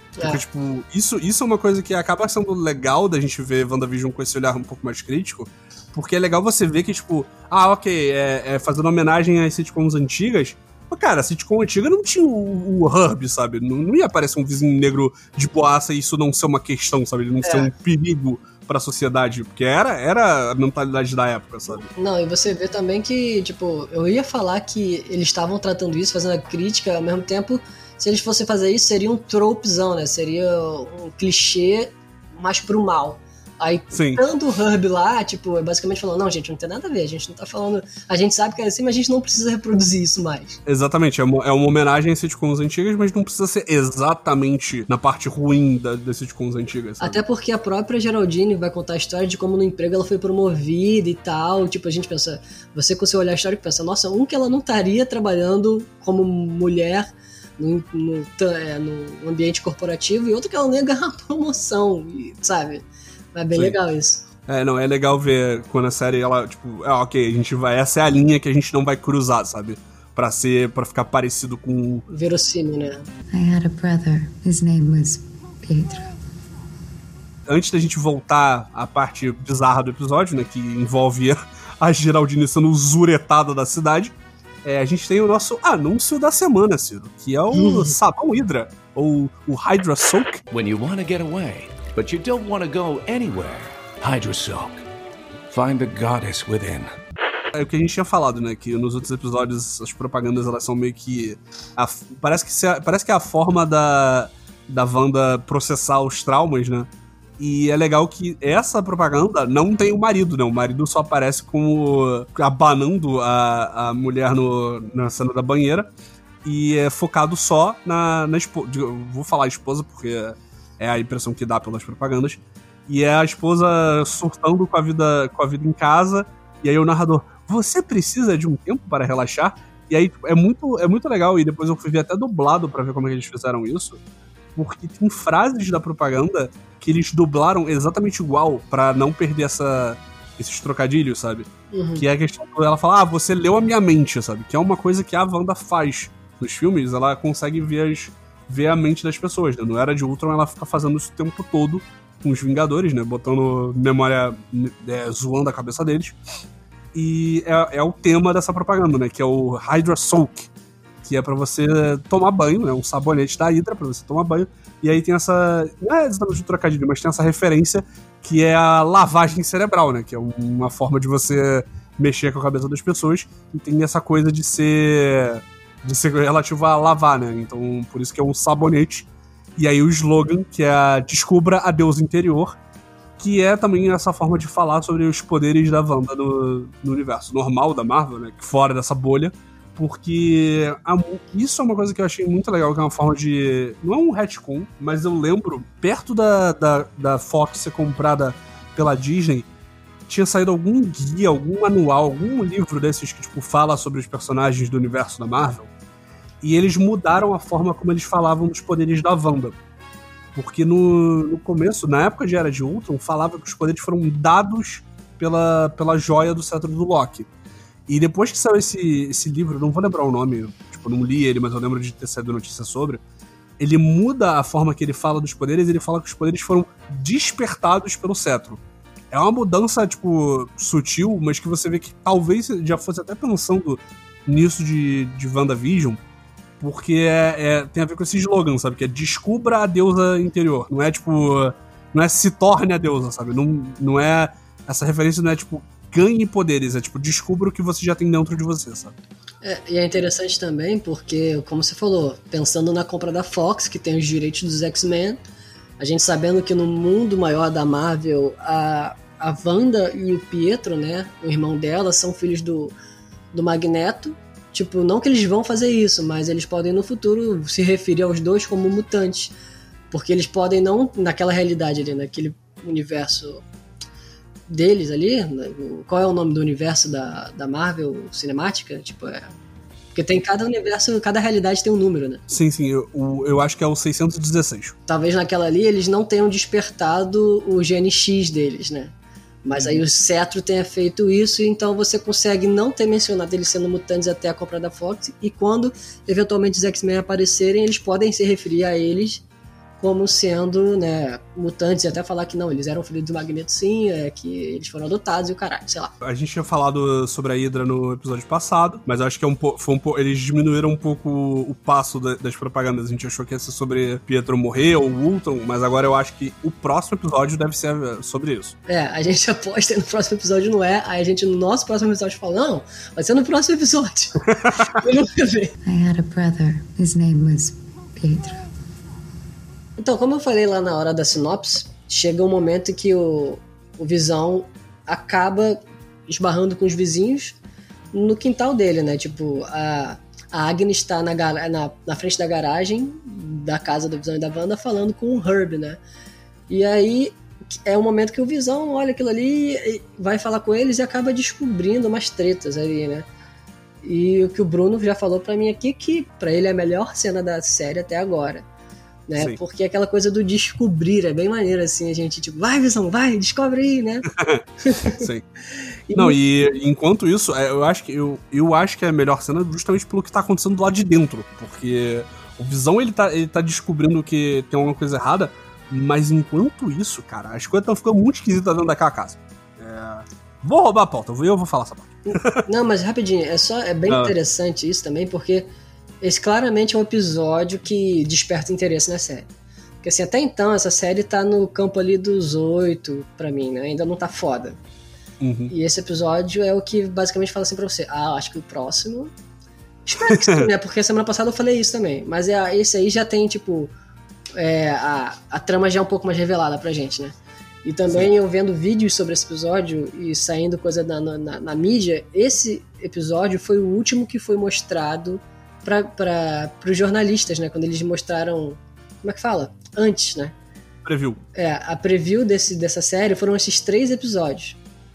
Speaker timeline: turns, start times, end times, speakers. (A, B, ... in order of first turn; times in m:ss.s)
0:00.2-0:00.4 A
0:00.2-0:21.9 B
0:17.4-0:17.7 A
0:21.9-0:40.6 A
0:33.9-0:34.2 B
0:40.7-0:47.2 B
0:47.0-0:57.1 A
0:57.6-1:04.2 A
1:03.5-1:03.8 B
1:04.5-1:12.1 B
1:12.1-1:13.1 A
1:13.3-1:16.1 C
1:17.5-1:30.4 B
1:27.6-1:27.9 A
1:30.5-1:34.8 D
1:35.5-1:36.9 D
1:37.5-1:55.9 B
1:56.4-2:14.0 B
2:14.6-2:36.2 B
2:21.7-2:22.0 A
2:36.9-2:40.5 B
2:41.0-3:02.6 B
3:03.2-3:19.5 B
3:20.1-3:25.7 B
3:26.4-3:29.6 B
3:30.4-3:37.3 B
3:37.9-3:43.0 B
3:43.6-3:56.0 B
3:56.6-4:09.0 B
4:09.4-4:15.2 A
4:15.8-4:22.8 A
4:23.3-4:29.3 A
4:29.9-4:33.4 A
4:34.5-4:39.3 A
4:39.9-4:42.2 A
4:42.3-4:44.8 B
4:44.9-4:59.2 A
4:49.5-4:49.8 B
4:59.8-5:05.9 A
5:06.0-5:18.6 B
5:18.7-5:25.5 A
5:25.6-5:28.5 C
5:29.8-5:37.4 A
5:37.9-5:45.8 A
5:46.5-5:53.1 A
5:53.8-5:58.5 A
5:59.1-6:04.1 A
6:04.1-6:05.2 B
6:04.6-6:05.0 A
6:05.9-6:06.2 A
6:06.0-6:22.4 B
6:22.1-6:25.5 A
6:23.9-6:24.1 B
6:26.0-6:29.3 A
6:29.8-6:34.6 A
6:35.2-6:35.5 B
6:35.5-6:39.1 A
6:39.9-6:43.7 A
6:40.0-6:40.5 B
6:44.4-7:00.4 A
7:00.8-7:01.2 B
7:01.4-7:04.6 A